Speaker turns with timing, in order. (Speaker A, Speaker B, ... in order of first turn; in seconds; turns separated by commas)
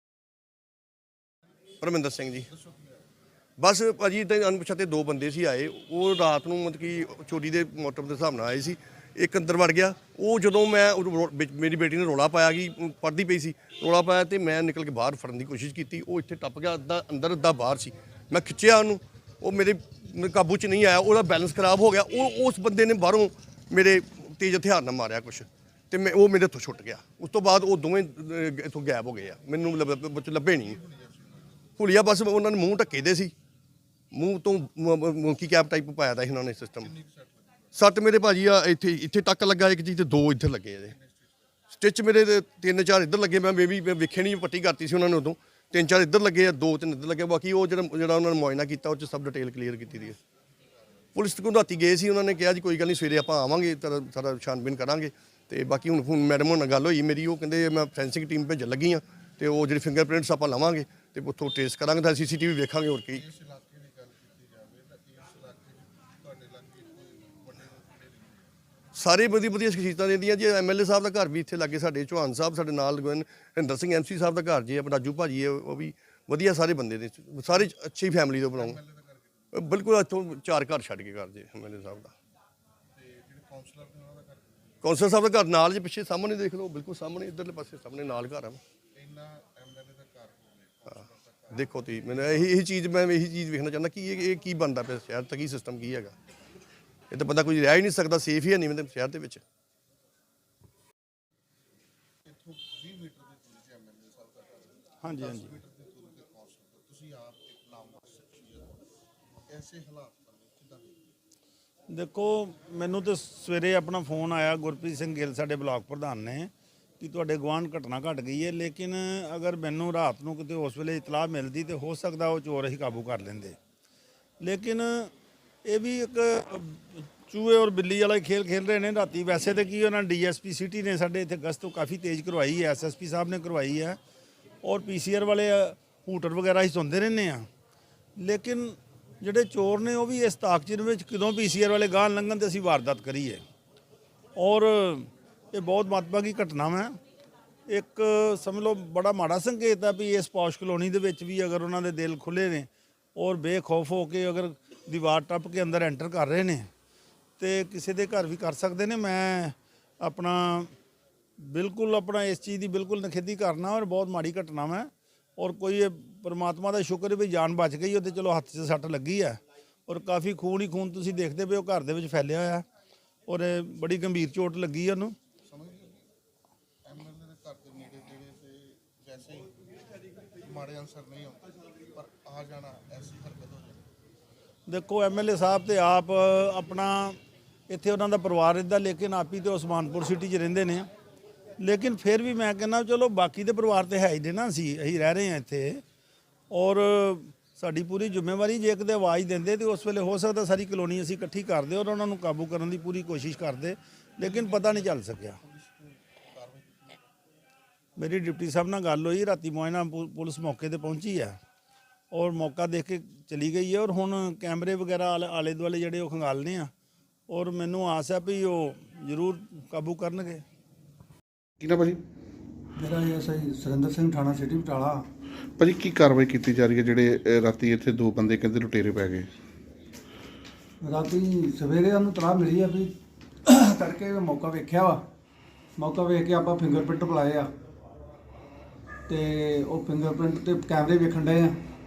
Speaker A: 1.8-2.5, Speaker B: 2.5-3.0, Speaker A: 3.6-30.8, Speaker B: 30.6-31.6, Speaker A: 31.8-33.3, Speaker A: 34.1-36.9, Speaker B: 36.8-37.7, Speaker A: 37.7-41.0, Speaker B: 40.9-41.3, Speaker A: 41.7-50.2, Speaker A: 51.1-63.2, Speaker B: 63.1-68.5, Speaker A: 69.0-78.8, Speaker B: 78.5-79.7, Speaker A: 79.5-82.2, Speaker B: 82.9-84.8, Speaker A: 84.8-88.6, Speaker B: 89.0-92.5, Speaker A: 91.5-96.2, Speaker A: 97.1-99.4, Speaker B: 102.3-108.7, Speaker C: 105.0-105.5, Speaker B: 109.5-111.1, Speaker C: 111.9-123.6, Speaker C: 124.4-125.1, Speaker C: 125.7-134.0, Speaker C: 134.6-137.5, Speaker C: 138.2-143.4, Speaker C: 144.4-146.9, Speaker C: 147.7-156.7, Speaker C: 157.4-160.7, Speaker C: 161.4-172.7, Speaker C: 173.3-175.2, Speaker B: 175.4-176.1, Speaker B: 176.8-179.5, Speaker B: 180.4-183.8, Speaker C: 184.7-187.2, Speaker C: 187.7-190.9, Speaker C: 191.6-195.8, Speaker C: 196.5-205.4, Speaker B: 204.2-207.0, Speaker C: 208.0-211.4, Speaker C: 212.1-216.7, Speaker C: 217.3-220.4, Speaker D: 221.6-222.0, Speaker E: 222.8-225.1, Speaker D: 225.6-229.3, Speaker E: 230.8-232.9, Speaker E: 233.4-235.0, Speaker E: 235.8-237.5, Speaker E: 239.1-241.6